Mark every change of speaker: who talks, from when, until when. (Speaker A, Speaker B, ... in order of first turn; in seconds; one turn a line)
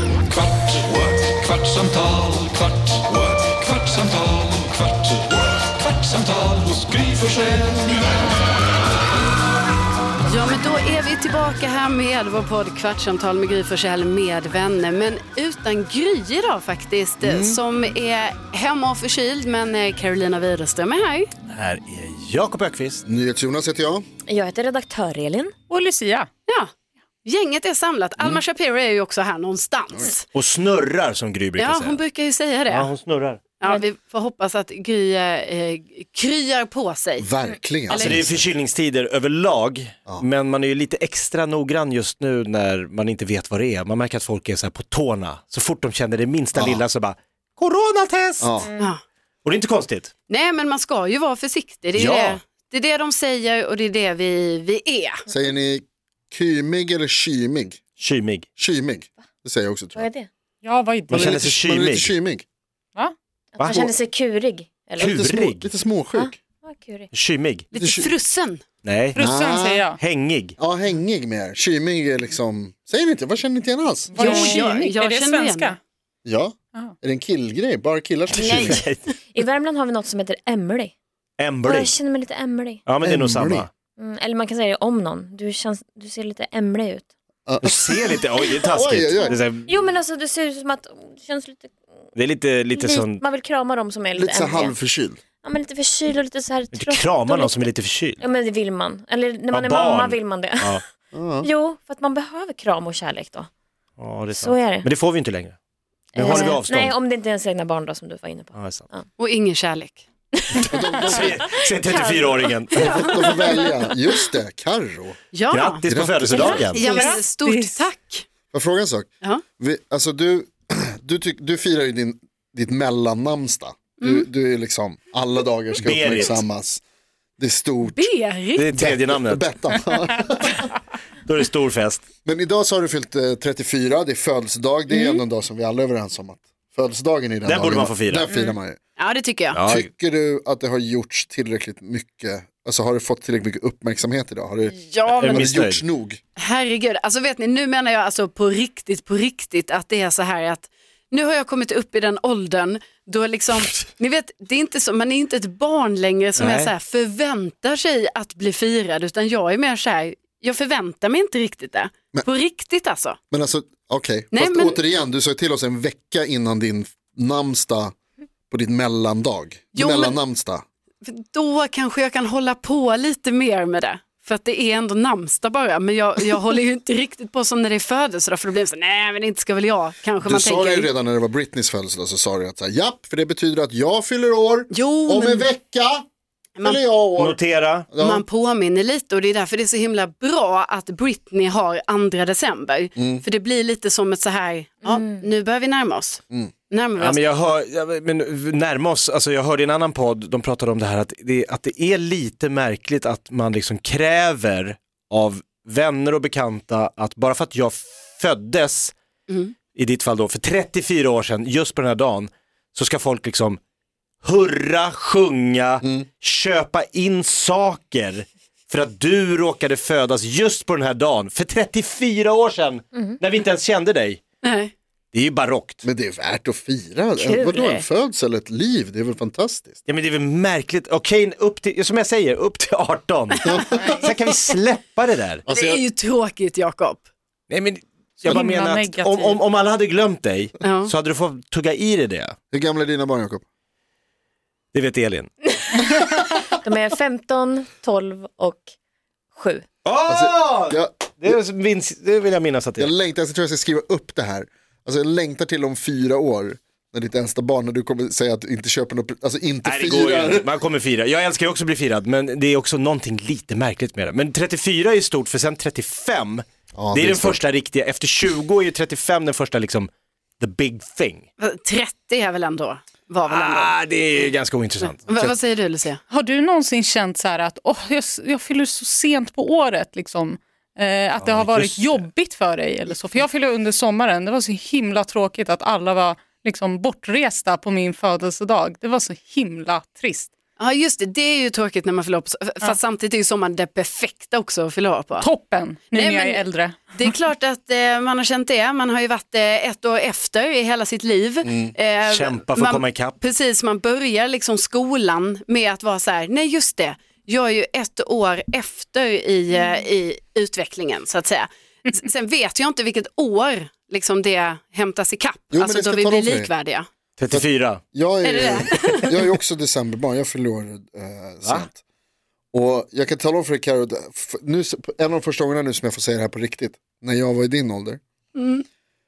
Speaker A: 0.7-4.6
Speaker A: 6.1-7.8
Speaker B: 10.3-21.3
Speaker C: 17.2-17.6
Speaker D: 21.4-23.0
Speaker C: 23.0-24.0
Speaker E: 24.3-25.5
Speaker F: 25.7-26.3
Speaker B: 27.2-30.2
Speaker D: 30.3-32.0
Speaker B: 31.6-32.9
Speaker D: 32.7-33.4
Speaker B: 33.6-37.3
Speaker C: 37.2-38.4
Speaker B: 37.9-38.2
Speaker D: 37.9-48.5
Speaker C: 46.5-46.8
Speaker C: 48.4-48.7
Speaker E: 48.6-48.9
Speaker D: 49.4-50.1
Speaker B: 50.3-55.2
Speaker C: 52.0-52.4
Speaker C: 55.3-57.8
Speaker D: 58.0-58.5
Speaker C: 58.6-60.1
Speaker E: 59.9-60.3
Speaker F: 60.6-61.3
Speaker D: 61.1-62.1
Speaker C: 61.1-62.4
Speaker E: 63.6-65.2
Speaker D: 63.6-63.8
Speaker C: 63.6-63.9
Speaker C: 65.0-66.3
Speaker D: 65.0-65.7
Speaker E: 66.1-67.1
Speaker D: 67.1-67.7
Speaker B: 67.7-68.6
Speaker C: 67.7-68.1
Speaker D: 68.8-69.2
Speaker F: 69.1-70.0
Speaker C: 69.2-69.8
Speaker D: 70.0-70.5
Speaker C: 70.6-74.2
Speaker F: 74.1-75.8
Speaker B: 74.1-75.7
Speaker E: 74.2-74.6
Speaker C: 76.2-78.8
Speaker D: 78.3-79.1
Speaker E: 78.3-80.9
Speaker D: 81.4-82.0
Speaker E: 81.6-82.8
Speaker D: 82.8-83.7
Speaker C: 83.0-83.7
Speaker E: 84.0-87.1
Speaker C: 87.5-89.4
Speaker D: 87.6-89.8
Speaker E: 89.7-91.7
Speaker D: 92.1-93.2
Speaker E: 92.8-94.8
Speaker C: 94.2-95.2
Speaker E: 95.4-100.8
Speaker D: 96.7-98.2
Speaker D: 99.5-100.8
Speaker C: 101.1-101.5
Speaker E: 101.4-103.5
Speaker D: 104.0-105.6
Speaker E: 104.3-104.9
Speaker D: 106.1-107.0
Speaker E: 106.1-109.1
Speaker D: 108.5-108.9
Speaker B: 109.2-110.0
Speaker E: 110.3-113.3
Speaker C: 110.7-111.5
Speaker D: 111.0-113.2
Speaker B: 112.8-113.6
Speaker C: 112.8-115.2
Speaker B: 115.3-118.2
Speaker D: 115.5-117.0
Speaker C: 115.8-116.6
Speaker E: 116.3-117.2
Speaker F: 116.8-117.8
Speaker C: 118.5-126.8
Speaker B: 124.0-124.2
Speaker D: 125.8-126.4
Speaker C: 127.4-128.0
Speaker B: 127.9-128.7
Speaker D: 128.6-129.5
Speaker C: 128.7-130.7
Speaker D: 131.2-132.0
Speaker C: 132.2-138.8
Speaker B: 134.9-135.2
Speaker D: 137.4-138.3
Speaker E: 138.3-138.6
Speaker B: 139.0-139.6
Speaker D: 139.5-139.9
Speaker C: 139.7-146.2
Speaker B: 144.7-145.4
Speaker D: 145.1-145.8
Speaker B: 146.4-163.2
Speaker D: 156.4-156.7
Speaker C: 163.3-167.9
Speaker B: 164.3-164.8
Speaker C: 168.5-170.6
Speaker B: 169.7-170.2
Speaker B: 171.0-180.9
Speaker C: 180.2-186.1
Speaker B: 184.7-185.5
Speaker C: 186.6-187.4
Speaker D: 187.2-187.9
Speaker C: 187.9-188.2
Speaker B: 188.0-197.2
Speaker C: 193.0-193.2
Speaker E: 194.8-195.2
Speaker D: 197.0-208.9
Speaker B: 209.3-209.5
Speaker D: 209.7-213.6
Speaker D: 214.2-224.2
Speaker B: 224.4-224.7
Speaker D: 225.1-225.8
Speaker C: 225.8-229.8
Speaker E: 227.2-227.9
Speaker D: 229.8-235.4
Speaker C: 233.4-234.1
Speaker F: 233.7-234.1
Speaker C: 235.4-235.8
Speaker B: 235.5-237.0
Speaker D: 237.5-242.3
Speaker F: 238.2-239.4
Speaker B: 240.6-240.9
Speaker C: 242.5-243.4
Speaker D: 244.7-245.4
Speaker E: 245.7-248.7
Speaker E: 249.3-249.7
Speaker D: 249.8-252.9
Speaker C: 250.1-251.4
Speaker C: 252.8-260.6
Speaker D: 259.6-271.3
Speaker C: 266.8-267.4
Speaker B: 271.4-273.7
Speaker D: 273.3-275.1
Speaker B: 275.1-276.0
Speaker F: 276.1-290.3
Speaker D: 281.2-282.1
Speaker B: 290.6-295.2
Speaker F: 295.2-297.1
Speaker B: 295.9-316.8
Speaker C: 301.4-301.7
Speaker D: 302.1-303.2
Speaker C: 315.5-316.5
Speaker D: 317.2-317.8
Speaker C: 317.3-321.8
Speaker B: 318.2-319.2
Speaker C: 322.5-328.0
Speaker B: 328.3-328.6